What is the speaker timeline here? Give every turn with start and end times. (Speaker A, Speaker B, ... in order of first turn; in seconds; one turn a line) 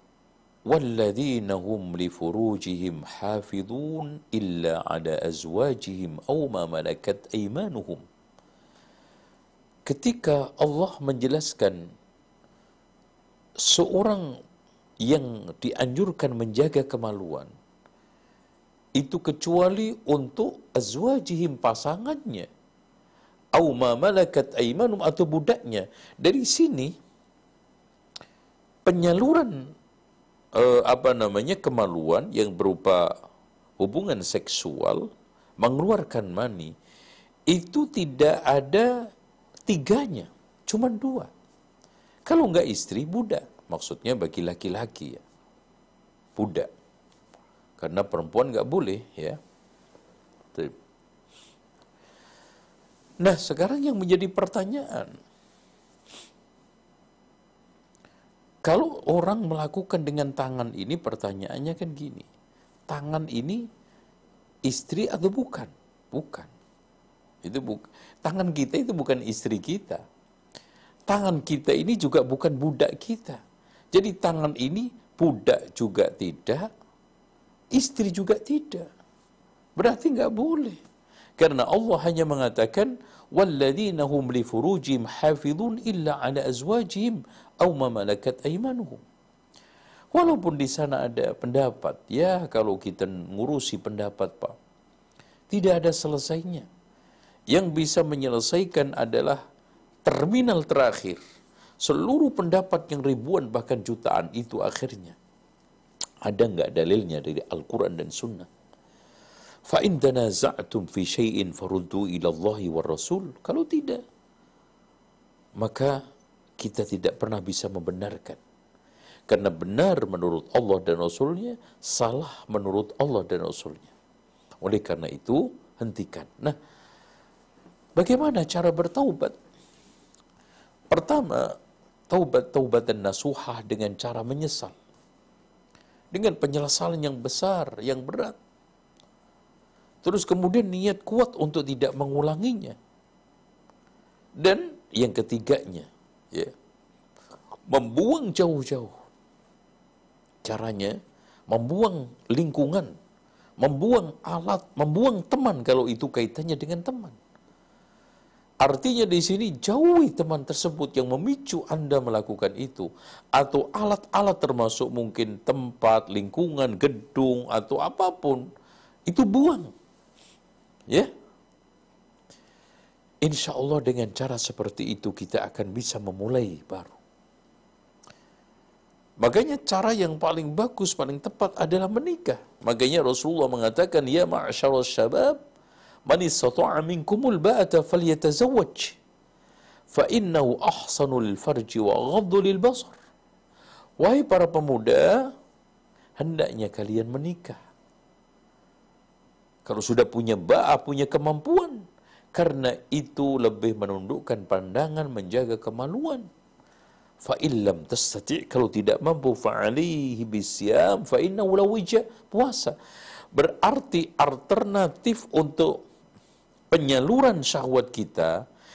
Speaker A: 0.7-8.0
Speaker A: 9.8-11.9
Speaker A: 13.7-14.3
Speaker A: 15.0-17.5
Speaker A: 19.0-22.5
Speaker A: 23.6-26.9
Speaker A: 28.8-29.6
Speaker A: 30.5-33.1
Speaker A: 33.8-36.7
Speaker A: 37.5-38.9
Speaker A: 39.6-41.3
Speaker A: 42.3-45.2
Speaker A: 46.4-46.7
Speaker A: 47.8-49.4
Speaker A: 53.2-55.1
Speaker A: 58.6-62.3
Speaker A: 62.9-63.6
Speaker A: 64.7-66.5
Speaker A: 67.4-70.0
Speaker A: 71.1-73.4
Speaker A: 73.9-76.7
Speaker A: 77.7-78.9
Speaker A: 79.8-80.8
Speaker A: 81.4-89.0
Speaker A: 90.1-94.5
Speaker A: 95.5-96.7
Speaker A: 97.5-99.4
Speaker A: 100.0-101.2
Speaker A: 101.8-105.2
Speaker A: 106.2-108.5
Speaker A: 109.7-114.0
Speaker A: 115.6-116.0
Speaker A: 116.6-118.4
Speaker A: 119.3-123.9
Speaker A: 124.6-126.5
Speaker A: 128.0-129.4
Speaker A: 130.9-131.5
Speaker A: 132.1-134.8
Speaker A: 136.1-138.3
Speaker A: 140.0-142.8
Speaker A: 144.4-146.5
Speaker A: 147.7-148.9
Speaker A: 150.4-150.9
Speaker A: 151.5-152.9
Speaker A: 153.6-157.2
Speaker A: 158.6-168.4
Speaker A: 169.1-169.7
Speaker A: 173.2-177.0
Speaker A: 179.2-185.4
Speaker A: 186.1-189.0
Speaker A: 189.9-193.0
Speaker A: 194.0-195.2
Speaker A: 196.2-197.6
Speaker A: 199.6-206.3
Speaker A: 207.2-212.7
Speaker A: 213.3-215.7
Speaker A: 216.7-218.3